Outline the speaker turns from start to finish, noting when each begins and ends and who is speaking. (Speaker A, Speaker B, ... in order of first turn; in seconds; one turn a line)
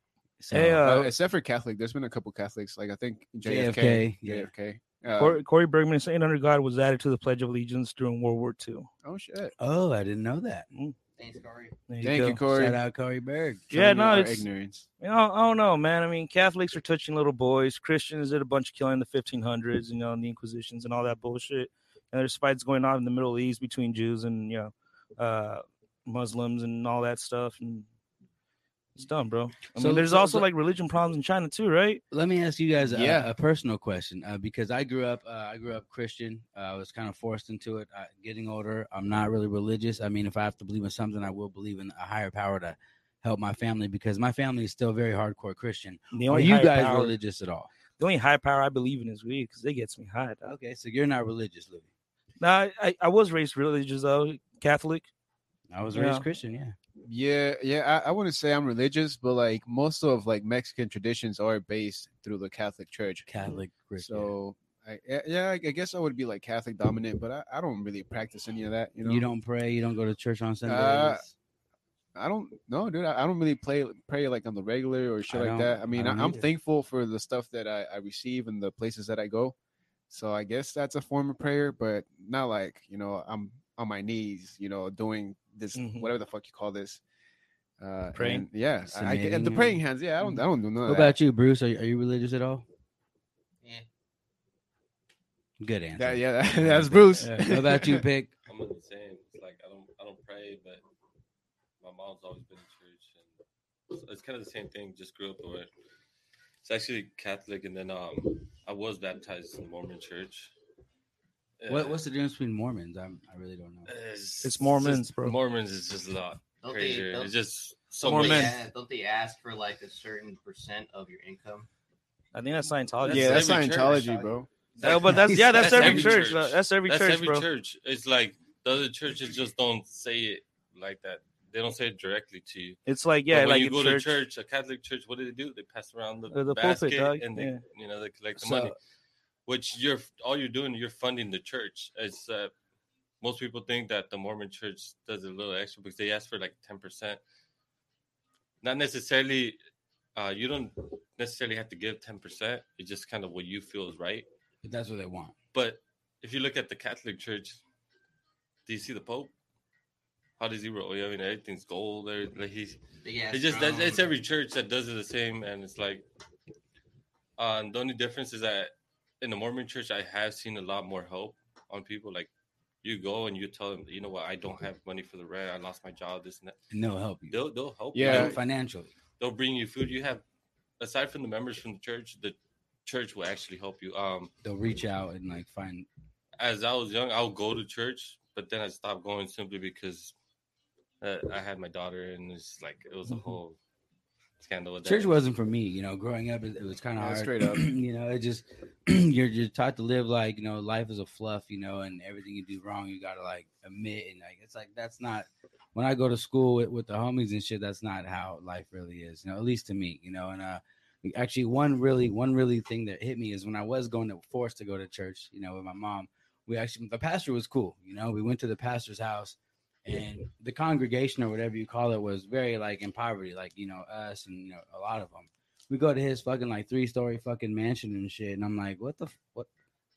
Speaker A: 0.4-0.8
Speaker B: 0.5-1.1
Speaker C: 0.8-5.4
Speaker A: 3.5-4.5
Speaker B: 5.2-8.9
Speaker C: 9.0-9.5
Speaker A: 9.6-10.7
Speaker D: 11.2-11.8
Speaker B: 11.9-12.4
Speaker C: 12.0-12.8
Speaker A: 12.5-13.7
Speaker B: 13.7-14.4
Speaker C: 13.7-14.9
Speaker B: 15.0-27.9
Speaker B: 29.0-32.0
Speaker A: 29.8-30.4
Speaker A: 32.1-47.7
Speaker C: 32.9-33.3
Speaker B: 46.1-47.2
Speaker B: 48.0-50.5
Speaker A: 50.4-51.9
Speaker B: 52.4-55.1
Speaker A: 55.7-56.8
Speaker B: 55.9-56.2
Speaker C: 57.0-63.3
Speaker A: 63.3-64.3
Speaker C: 64.0-69.3
Speaker A: 69.0-71.3
Speaker C: 70.7-71.2
Speaker C: 72.2-79.5
Speaker A: 75.3-76.4
Speaker C: 80.1-87.0
Speaker B: 85.8-86.1
Speaker C: 87.8-91.2
Speaker B: 88.1-88.5
Speaker A: 88.8-89.8
Speaker A: 90.8-92.7
Speaker A: 95.6-98.3
Speaker C: 96.0-98.0
Speaker B: 97.2-97.5
Speaker E: 98.5-100.8
Speaker E: 101.8-103.3
Speaker E: 103.9-105.7
Speaker E: 106.6-110.5
Speaker E: 111.6-112.0
Speaker A: 111.7-113.9
Speaker E: 113.9-118.7
Speaker B: 114.4-115.4
Speaker D: 116.6-117.3
Speaker B: 118.0-118.7
Speaker D: 118.0-121.7
Speaker B: 122.3-123.5
Speaker E: 123.0-124.1
Speaker C: 123.1-124.5
Speaker D: 123.2-124.3
Speaker B: 124.8-127.5
Speaker E: 124.8-138.8
Speaker C: 125.2-125.4
Speaker B: 132.9-134.2
Speaker B: 136.3-137.7
Speaker B: 138.4-138.7
Speaker E: 139.5-142.5
Speaker E: 143.2-147.2
Speaker E: 148.6-149.6
Speaker E: 150.2-154.3
Speaker A: 154.6-155.3
Speaker E: 155.5-157.6
Speaker E: 158.7-159.3
Speaker E: 160.4-166.1
Speaker D: 163.0-164.1
Speaker E: 167.4-172.3
Speaker E: 172.8-176.6
Speaker A: 176.7-177.4
Speaker E: 177.3-178.4
Speaker C: 177.9-178.4
Speaker A: 178.0-178.9
Speaker E: 179.2-180.2
Speaker E: 180.8-184.3
Speaker A: 184.4-185.9
Speaker E: 186.4-190.1
Speaker E: 191.0-193.6
Speaker E: 194.4-195.1
Speaker A: 194.8-229.5
Speaker C: 197.0-197.7